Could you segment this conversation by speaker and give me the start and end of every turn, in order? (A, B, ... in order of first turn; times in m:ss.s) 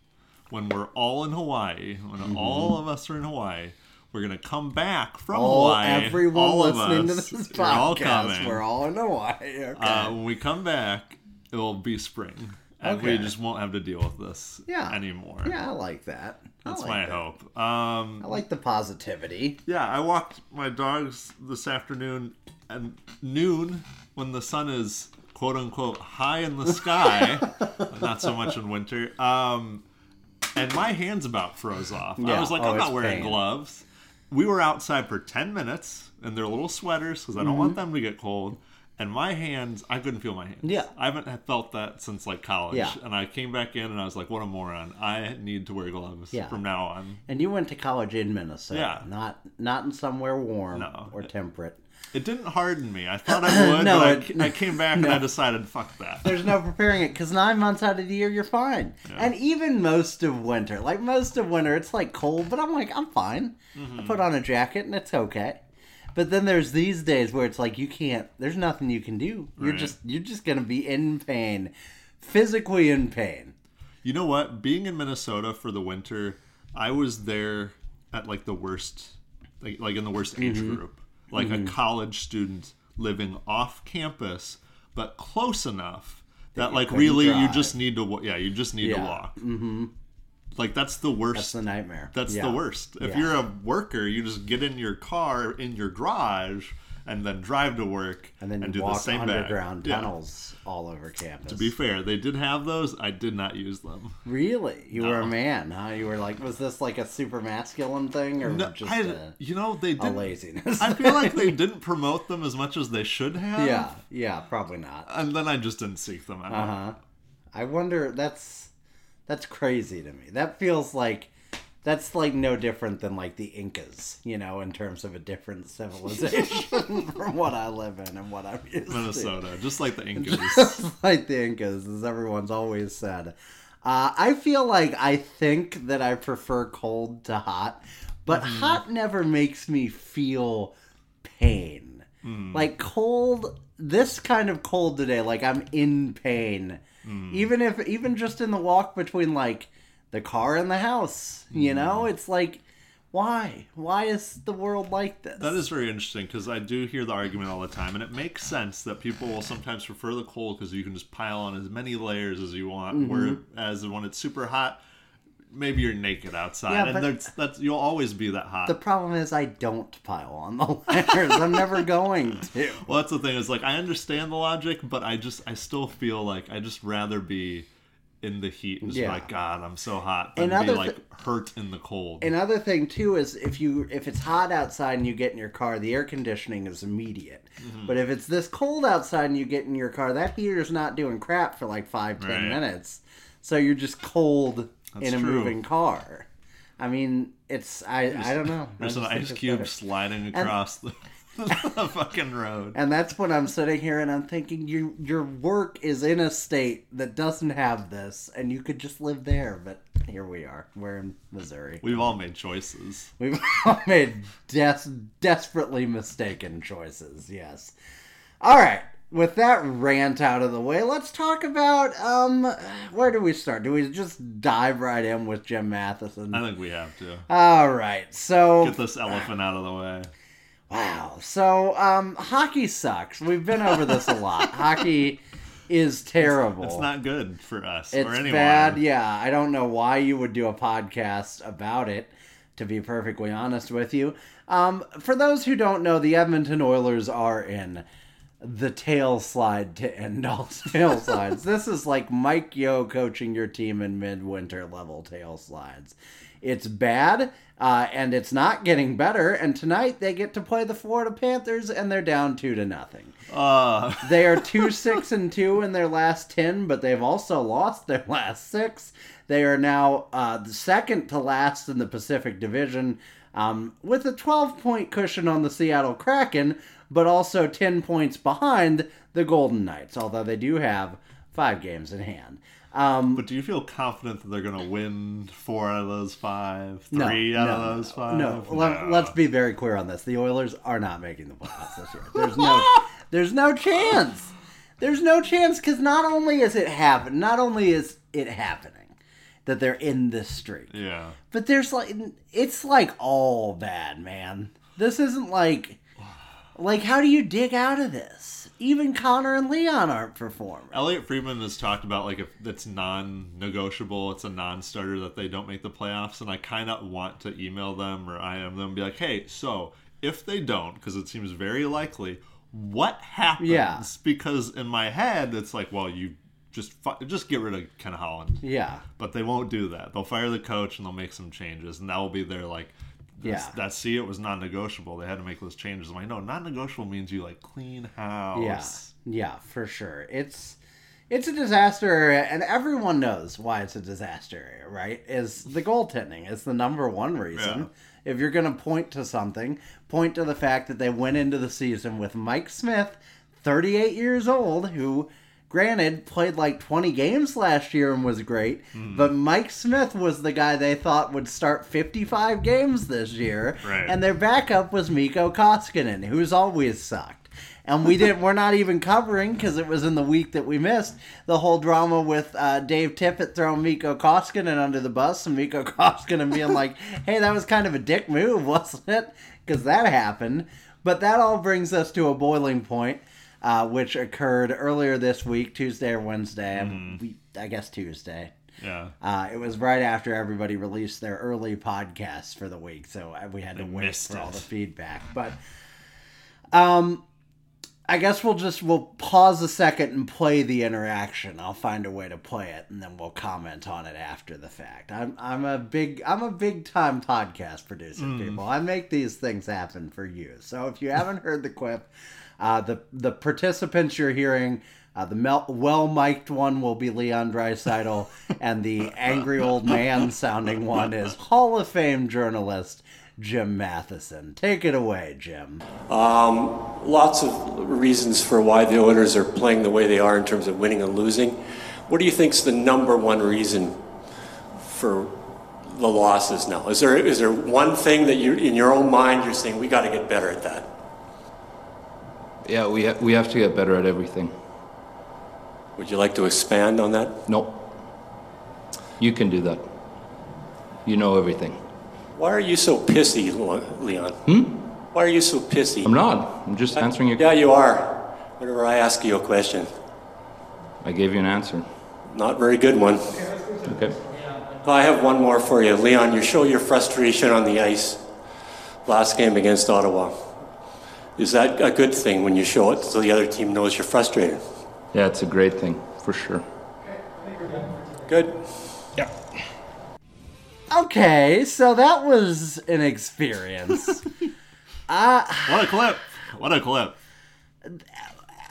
0:00.5-0:08.6 A
0:02.2-0:02.8 B
0:05.3-0:10.1 B
0:09.8-0:15.5 A
0:12.8-0:13.3 B
0:14.7-0:17.2 B
0:16.6-0:18.4 A
0:18.2-0:19.6 B
0:19.6-0:29.8 A
0:30.5-0:47.2 A
0:32.2-0:33.4 B
0:37.4-0:37.8 B
0:40.6-0:40.9 B
0:42.7-0:43.0 B
0:46.3-0:46.6 B
0:47.2-0:51.8 B
0:48.7-0:49.0 A
0:50.7-0:51.3 A
0:52.1-0:56.5 A
0:53.3-0:55.2 B
0:56.2-1:05.6 B
1:03.7-1:04.2 A
1:06.1-1:13.5 B
1:09.6-1:10.0 A
1:14.0-1:29.4 A
1:20.4-1:20.8 B
1:21.3-1:21.7 B
1:26.5-1:27.8 B
1:28.8-1:29.9 B
1:30.5-1:31.6 A
1:31.3-1:33.3 B
1:32.1-1:40.1 A
1:38.4-1:41.7 B
1:41.5-1:44.2 A
1:44.2-1:49.3 B
1:44.9-1:45.3 A
1:48.4-1:53.9 A
1:50.0-1:51.6 B
1:53.6-1:55.1 B
1:55.0-1:56.8 A
1:56.5-1:57.0 B
1:57.5-1:58.7 B
1:59.3-2:01.3 B
2:01.8-2:09.4 B
2:08.9-2:10.8 A
2:10.2-2:35.6 B
2:18.3-2:18.8 A
2:22.2-2:22.7 A
2:27.0-2:27.5 A
2:31.5-2:32.1 A
2:35.4-2:44.8 A
2:42.9-2:43.4 B
2:45.5-2:48.8 A
2:46.7-2:47.3 B
2:48.6-2:52.8 B
2:51.3-2:51.6 A
2:52.8-2:57.7 A
2:58.2-3:02.3 A
2:58.8-2:59.3 B
3:00.4-3:01.0 B
3:02.2-3:16.3 B
3:07.6-3:08.0 A
3:12.2-3:12.6 A
3:14.9-3:15.6 A
3:16.8-3:19.7 B
3:18.1-3:22.8 A
3:22.7-3:32.1 B
3:31.8-3:33.1 A
3:33.2-3:37.7 B
3:38.4-3:46.4 B
3:46.3-3:47.2 A
3:47.3-3:48.8 B
3:48.6-3:50.1 A
3:50.7-3:56.8 B
3:56.2-3:58.8 A
3:57.9-4:07.8 B
4:08.4-4:23.2 B
4:23.3-4:25.0 A
4:24.0-4:43.2 B
4:43.1-4:49.1 A
4:46.9-4:58.9 B
4:52.1-4:52.8 A
4:59.4-5:00.7 B
5:00.7-5:01.2 A
5:01.3-5:05.8 B
5:06.5-5:10.8 B
5:10.7-5:28.4 A
5:23.4-5:23.9 B
5:28.4-5:28.8 B
5:29.0-5:38.9 A
5:33.2-5:33.6 B
5:38.3-5:40.6 B
5:41.1-6:28.3 B
5:47.3-5:47.7 A
5:58.7-5:59.1 A
6:03.6-6:04.0 A
6:26.5-6:27.0 A
6:28.6-6:28.9 A
6:29.0-6:35.4 B
6:33.6-6:34.4 A
6:36.5-6:37.0 B
6:37.9-7:05.6 B
6:48.0-6:48.4 A
6:59.4-6:59.8 A
7:05.9-7:13.8 C
7:14.6-7:20.7 C
7:22.4-7:24.3 D
7:25.8-7:27.2 C
7:27.3-7:27.5 D
7:29.0-7:29.6 D
7:30.8-7:31.6 D
7:32.1-7:34.3 C
7:34.3-7:34.5 D
7:34.9-7:36.0 C
7:35.8-7:37.2 D
7:36.7-7:39.8 C
7:40.8-7:41.7 D
7:42.1-7:43.4 C
7:43.6-7:44.0 D
7:44.6-7:48.0 C
7:48.8-7:50.3 C
7:51.2-7:54.5 C
7:54.9-7:56.4 D
7:58.1-7:58.4 C
8:00.7-8:04.0 B
8:04.9-8:05.8 B
8:05.4-8:07.0 A